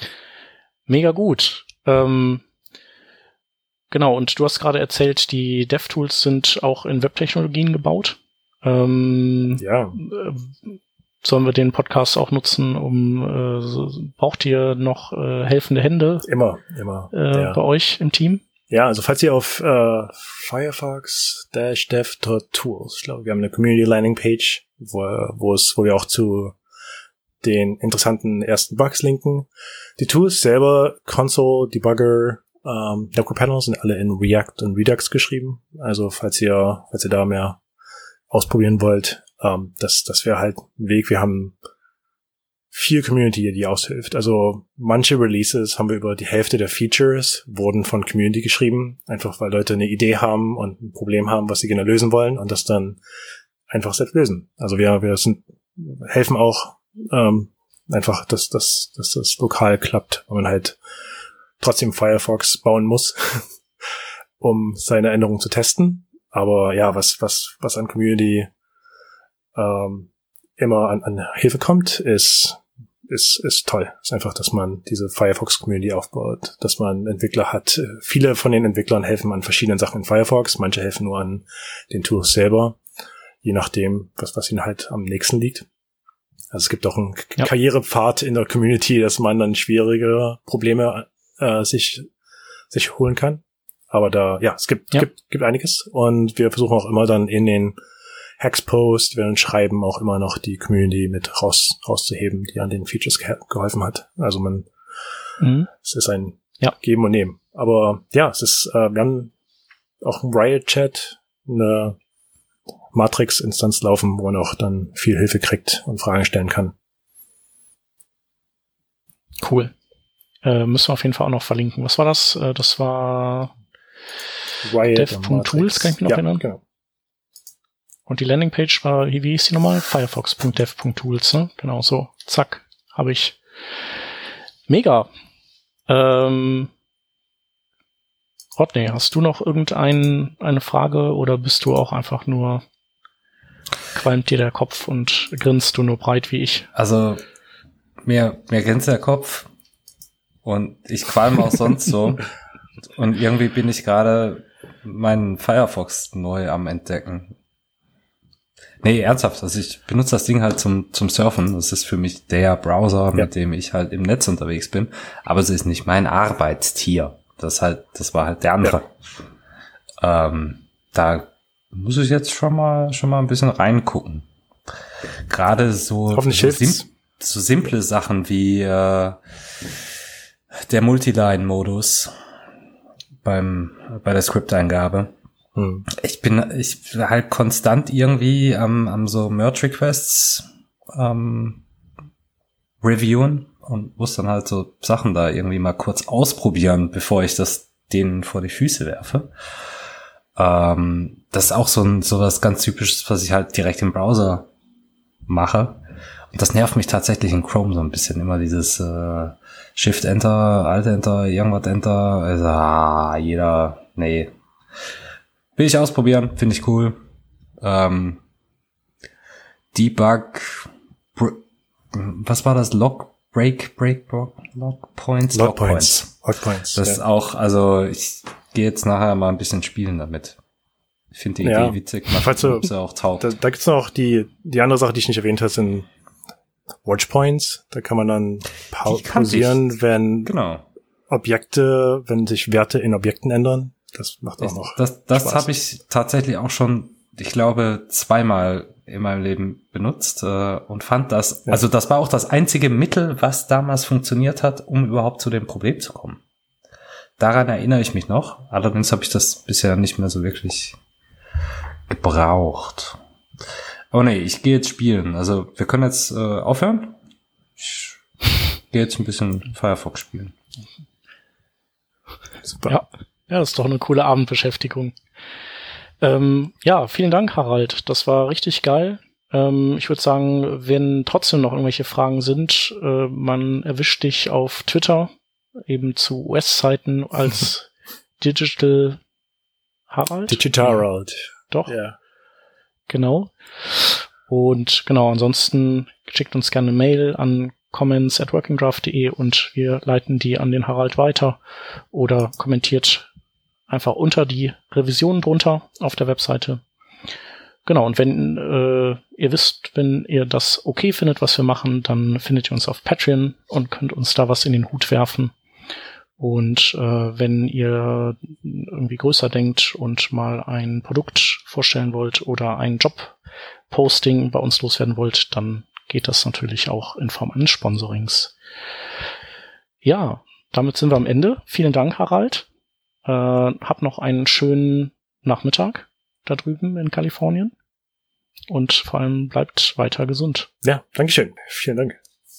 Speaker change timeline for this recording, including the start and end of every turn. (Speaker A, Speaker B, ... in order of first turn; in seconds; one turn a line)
Speaker A: 0.9-2.4
Speaker A: 3.9-16.3
Speaker B: 9.6-10.0
Speaker B: 16.2-17.6
Speaker A: 17.1-18.4
Speaker B: 18.7-26.6
Speaker B: 27.4-37.6
Speaker B: 38.3-41.6
Speaker B: 42.7-53.0
Speaker B: 53.7-60.8
Speaker B: 61.6-63.5
Speaker B: 64.4-68.5
Speaker B: 69.5-82.8
Speaker B: 83.4-85.7
Speaker B: 86.5-92.1
Speaker B: 92.7-97.8
Speaker B: 98.4-104.7
Speaker A: 105.4-105.7
Speaker B: 105.7-109.3
Speaker B: 110.0-112.0
Speaker B: 112.9-116.7
Speaker A: 119.4-119.7
Speaker A: 120.4-123.5
Speaker B: 124.6-126.6
Speaker A: 124.9-126.4
Speaker A: 128.1-133.4
Speaker A: 134.7-135.1
Speaker A: 135.9-136.7
Speaker A: 138.6-142.6
Speaker A: 143.9-146.7
Speaker C: 146.8-147.2
Speaker C: 148.0-149.5
Speaker C: 150.4-152.3
Speaker C: 153.0-157.3
Speaker C: 158.8-169.0
Speaker C: 170.0-174.3
Speaker C: 175.3-179.8
Speaker B: 176.1-176.9
Speaker C: 180.5-182.1
Speaker C: 183.2-185.1
Speaker B: 185.6-185.9
Speaker C: 185.9-191.6
Speaker C: 192.8-199.3
Speaker C: 200.4-204.5
Speaker C: 205.3-214.3
Speaker C: 215.6-217.0
Speaker C: 217.6-218.2
Speaker C: 219.7-226.1
Speaker B: 225.3-227.0
Speaker C: 226.7-230.4
Speaker C: 231.1-233.3
Speaker B: 231.4-235.9
Speaker B: 236.8-240.3
Speaker C: 238.7-239.7
Speaker C: 240.3-240.7
Speaker B: 241.1-245.5
Speaker C: 244.4-256.2
Speaker C: 257.2-260.8
Speaker C: 261.9-263.0
Speaker C: 263.9-267.0
Speaker C: 267.6-268.0
Speaker C: 268.7-270.4
Speaker B: 272.4-272.8
Speaker A: 272.7-275.0
Speaker A: 276.0-285.1
Speaker A: 285.7-289.0
Speaker A: 289.9-290.8
Speaker B: 290.3-292.0
Speaker A: 292.9-301.4
Speaker A: 301.9-303.1
Speaker A: 303.7-306.6
Speaker A: 307.7-315.3
Speaker A: 316.2-323.2
Speaker A: 323.7-328.3
Speaker A: 329.8-332.5
Speaker A: 333.1-337.5
Speaker A: 338.5-340.5
Speaker B: 340.6-342.0